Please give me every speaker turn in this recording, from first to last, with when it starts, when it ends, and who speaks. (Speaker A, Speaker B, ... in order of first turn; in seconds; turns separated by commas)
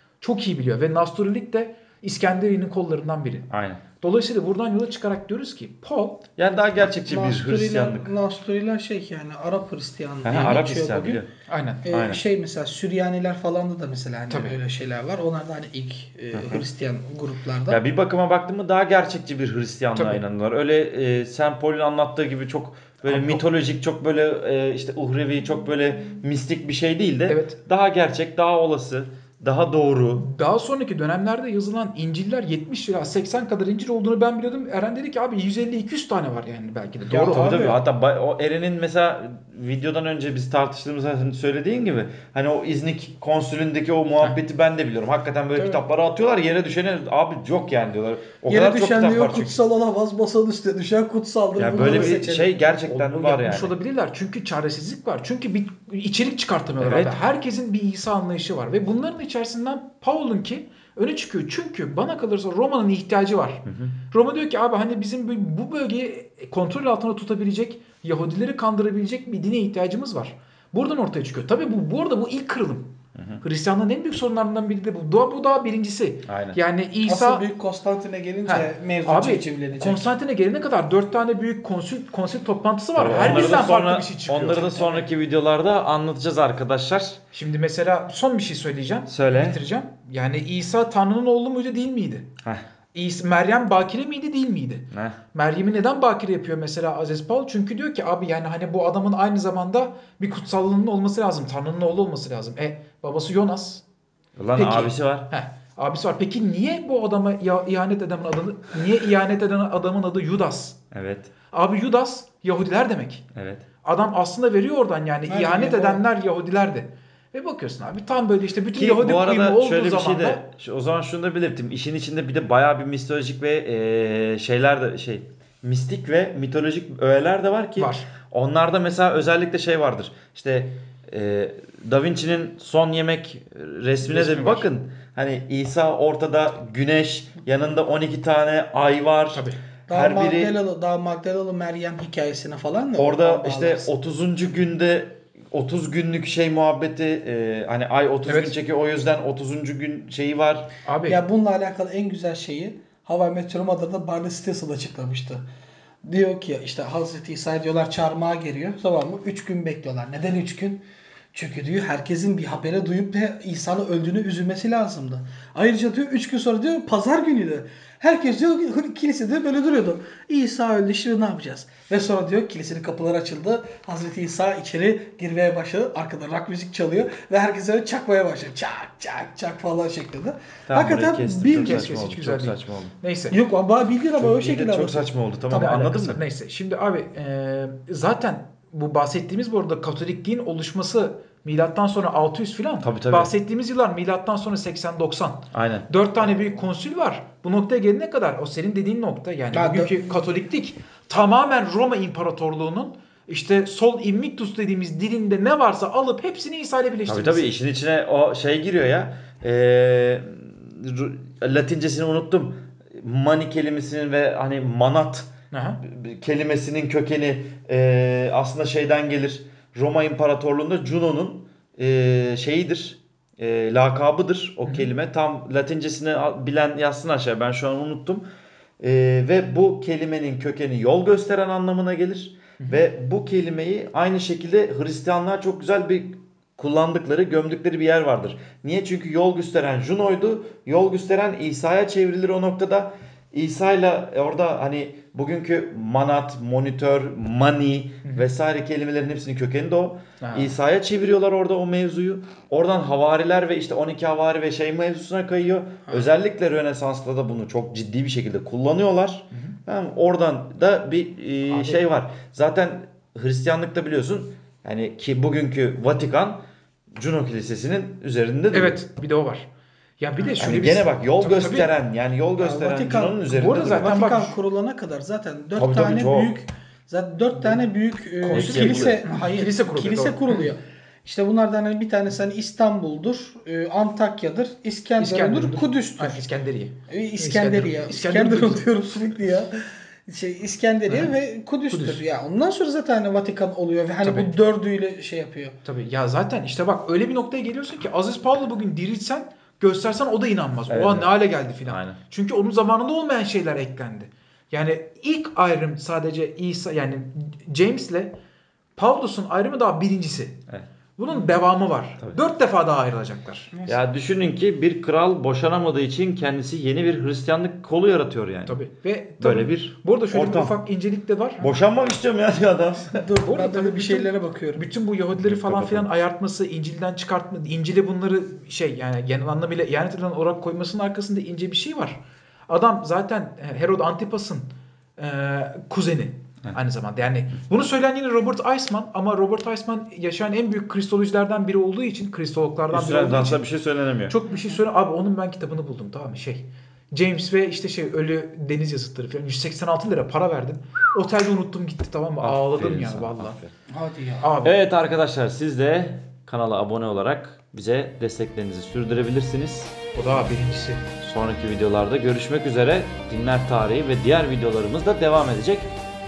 Speaker A: 0.2-3.5, Speaker B: 3.5-3.8, Speaker A: 4.0-6.2, Speaker B: 6.4-8.1, Speaker C: 6.9-11.2, Speaker B: 10.2-11.2, Speaker A: 11.5-11.8, Speaker C: 11.8-17.8, Speaker B: 11.9-12.2, Speaker A: 14.3-14.5, Speaker B: 17.7-30.2, Speaker A: 23.1-23.4, Speaker A: 27.3-27.6, Speaker A: 30.1-37.7, Speaker C: 37.1-37.8, Speaker B: 37.1-49.6, Speaker C: 48.5-52.5, Speaker B: 51.5-53.8, Speaker A: 51.7-52.2, Speaker A: 52.8-72.9, Speaker B: 56.8-57.2, Speaker B: 63.7-63.9, Speaker B: 73.1-73.4, Speaker A: 73.4-77.4, Speaker B: 76.3-76.6, Speaker C: 77.0-80.1, Speaker A: 78.5-85.1, Speaker B: 83.0-87.2, Speaker A: 87.3-92.3, Speaker B: 89.1-89.6, Speaker A: 92.9-103.8, Speaker B: 94.9-95.2, Speaker B: 104.3-105.3, Speaker A: 104.5-110.8, Speaker B: 110.9-111.3, Speaker A: 111.5-113.2, Speaker B: 113.3-113.6, Speaker A: 113.8-120.4, Speaker C: 115.3-116.0, Speaker B: 118.7-140.5, Speaker A: 127.8-128.1, Speaker A: 134.0-134.7, Speaker A: 139.3-139.6, Speaker C: 139.9-143.9, Speaker B: 143.0-150.7, Speaker A: 148.2-148.5, Speaker A: 150.8-151.2, Speaker C: 151.1-155.4, Speaker C: 156.0-181.8, Speaker B: 180.7-182.9, Speaker A: 181.6-183.4, Speaker C: 183.3-185.1, Speaker B: 184.2-186.2, Speaker A: 185.5-207.5, Speaker B: 192.8-193.3, Speaker B: 195.5-195.9, Speaker C: 199.5-199.9, Speaker B: 207.1-228.2, Speaker A: 215.5-215.8, Speaker B: 228.8-266.4, Speaker A: 250.2-250.5, Speaker A: 261.5-261.8, Speaker B: 266.9-268.8, Speaker A: 268.5-269.5, Speaker A: 270.0-271.7, Speaker B: 270.4-274.0, Speaker C: 272.4-286.2, Speaker A: 273.3-274.4, Speaker B: 275.5-276.4, Speaker A: 278.2-280.4, Speaker B: 278.3-279.1, Speaker A: 285.0-288.6, Speaker C: 286.9-295.6, Speaker A: 290.9-291.1, Speaker A: 291.7-292.0, Speaker A: 294.0-294.3, Speaker A: 295.6-308.1, Speaker B: 300.7-301.1, Speaker B: 301.7-302.0, Speaker A: 308.8-310.4, Speaker A: 311.0-313.5, Speaker B: 313.6-318.6, Speaker A: 318.4-321.4, Speaker B: 319.2-320.6, Speaker B: 321.4-323.0, Speaker C: 322.9-324.6, Speaker A: 323.2-343.4, Speaker B: 325.2-325.9, Speaker B: 342.7-344.1, Speaker A: 344.1-353.4, Speaker B: 352.2-353.5, Speaker C: 353.7-354.2, Speaker A: 354.2-354.6, Speaker B: 354.4-359.7, Speaker A: 359.9-360.9, Speaker B: 361.0-365.7